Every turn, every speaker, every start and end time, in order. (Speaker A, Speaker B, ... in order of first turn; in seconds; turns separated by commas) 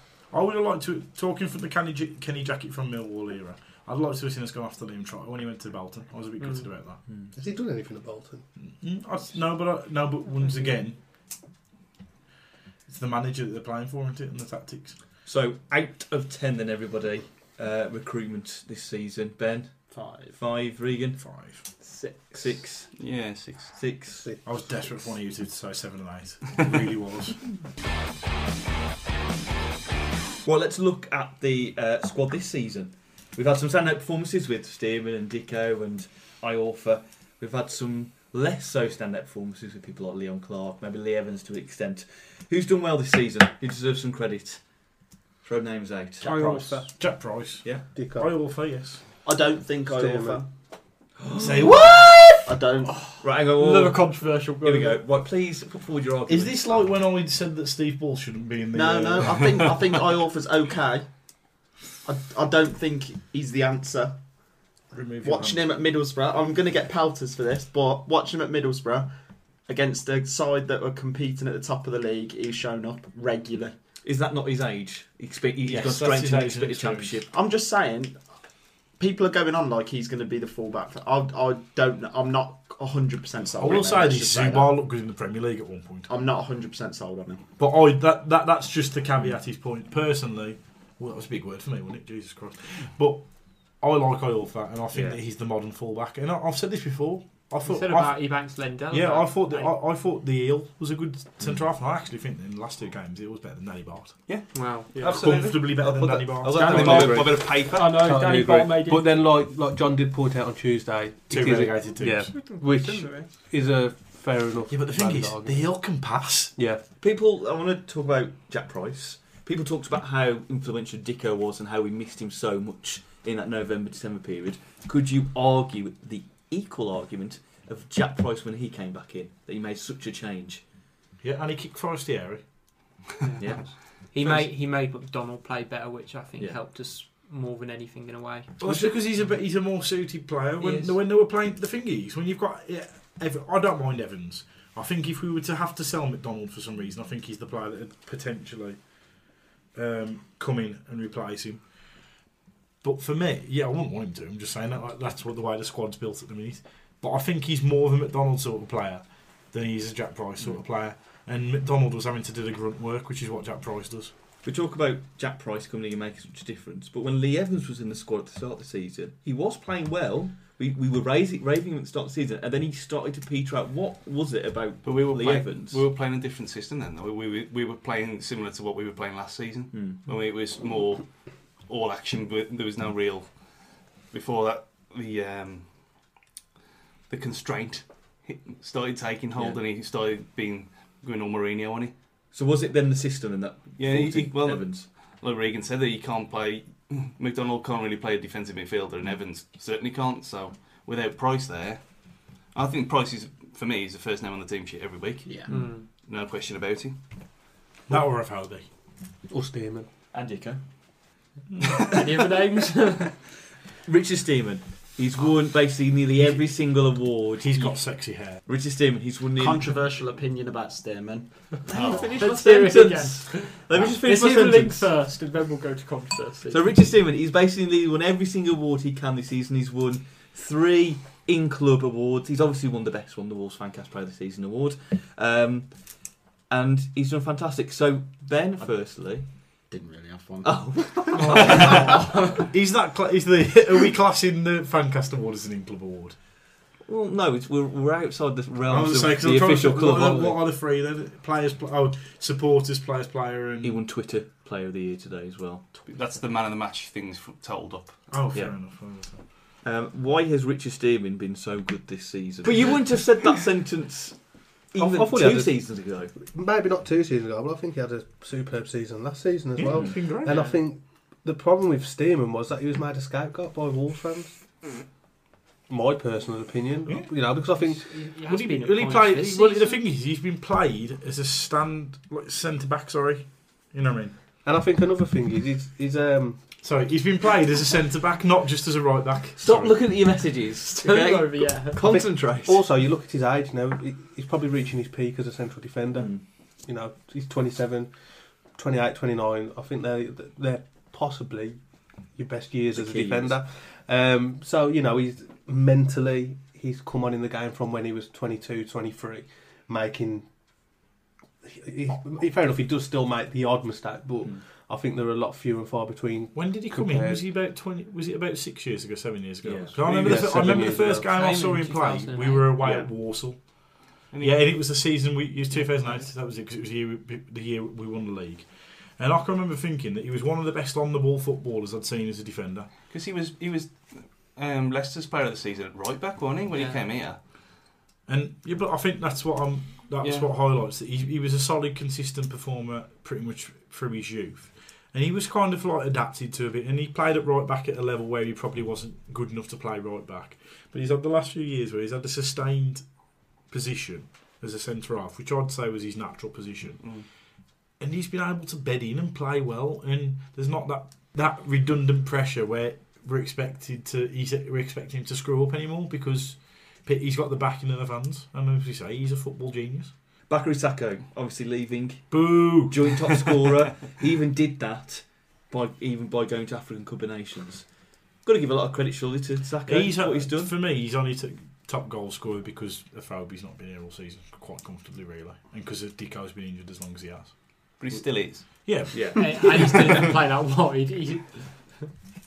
Speaker A: 0.3-7.0, Speaker B: 6.4-6.7, Speaker C: 7.1-7.3, Speaker D: 7.3-8.4, Speaker A: 8.6-11.0, Speaker A: 12.9-15.0, Speaker C: 15.2-21.2, Speaker E: 19.9-20.4, Speaker A: 21.2-21.7, Speaker B: 21.8-22.6, Speaker C: 22.3-23.1, Speaker F: 22.9-23.8, Speaker C: 23.7-24.3, Speaker D: 24.2-24.8, Speaker A: 24.4-27.4, Speaker C: 30.4-44.6, Speaker C: 45.4-46.3, Speaker B: 46.2-46.6, Speaker D: 46.2-46.9, Speaker A: 46.2-49.0, Speaker D: 47.9-48.3, Speaker E: 49.2-50.5, Speaker D: 49.9-50.4, Speaker C: 51.2-51.8, Speaker A: 51.4-52.5, Speaker E: 52.5-52.9, Speaker B: 52.9-55.0, Speaker C: 53.2-56.9, Speaker A: 56.3-59.8, Speaker E: 58.7-61.1, Speaker E: 62.0-64.2, Speaker A: 64.9-65.6, Speaker E: 65.2-69.1, Speaker E: 69.7-73.7, Speaker C: 74.0-77.3, Speaker A: 75.6-77.2, Speaker E: 77.3-78.2, Speaker E: 79.0-84.7, Speaker A: 83.5-86.1, Speaker E: 86.1-87.4, Speaker A: 87.6-104.2, Speaker C: 94.9-95.2, Speaker B: 97.6-99.7, Speaker F: 104.2-105.7, Speaker B: 104.5-105.3, Speaker A: 104.9-107.2, Speaker C: 105.2-108.0, Speaker B: 106.5-109.2, Speaker D: 106.6-107.3, Speaker D: 108.0-115.7, Speaker A: 111.3-112.3, Speaker B: 112.2-113.3, Speaker A: 114.7-116.5, Speaker D: 116.6-116.8, Speaker C: 117.0-130.6, Speaker A: 131.2-132.9, Speaker B: 133.2-138.5, Speaker C: 133.4-134.4, Speaker A: 138.6-151.7, Speaker C: 138.6-138.9, Speaker B: 140.6-140.9, Speaker A: 152.8-164.1, Speaker C: 164.4-175.8, Speaker F: 174.8-181.1, Speaker C: 179.7-180.1, Speaker F: 181.7-186.1, Speaker F: 187.1-191.9, Speaker C: 192.3-194.9, Speaker F: 193.8-206.9, Speaker E: 205.3-205.5, Speaker B: 205.5-205.8, Speaker A: 207.9-208.6, Speaker D: 209.3-209.9, Speaker C: 210.1-210.6, Speaker A: 211.5-211.9, Speaker B: 211.7-213.1, Speaker C: 213.8-219.7, Speaker A: 217.4-218.4, Speaker E: 219.4-222.2, Speaker C: 221.7-224.9, Speaker B: 221.8-226.7, Speaker C: 226.5-239.3, Speaker E: 239.7-242.4, Speaker C: 240.4-242.0, Speaker A: 241.2-246.2, Speaker C: 246.8-250.4, Speaker A: 248.7-253.9, Speaker C: 253.6-255.8, Speaker F: 255.8-258.1, Speaker A: 258.1-259.2, Speaker C: 259.6-266.1, Speaker D: 264.8-274.3, Speaker A: 269.6-270.5, Speaker B: 270.2-270.6, Speaker D: 275.7-277.8, Speaker B: 277.6-279.8, Speaker A: 278.2-284.1, Speaker D: 284.4-286.4, Speaker A: 286.6-289.9, Speaker C: 289.4-292.6, Speaker B: 290.8-291.8, Speaker D: 291.8-297.9, Speaker C: 295.9-296.2, Speaker D: 298.5-301.6, Speaker D: 302.1-310.3, Speaker C: 302.7-303.4, Speaker D: 311.4-317.2, Speaker A: 316.3-332.7, Speaker C: 319.4-320.4, Speaker D: 319.8-321.1, Speaker F: 319.9-320.5, Speaker B: 320.8-322.7, Speaker C: 322.6-322.9, Speaker F: 324.1-324.8, Speaker F: 332.9-337.2, Speaker B: 336.5-336.8, Speaker A: 338.1-357.0, Speaker B: 340.0-340.3, Speaker F: 356.8-357.0, Speaker A: 357.8-369.9, Speaker C: 370.3-377.7, Speaker A: 372.1-373.5, Speaker C: 378.2-380.5, Speaker A: 379.6-389.9, Speaker F: 387.8-388.7, Speaker C: 388.9-389.4, Speaker B: 389.2-391.9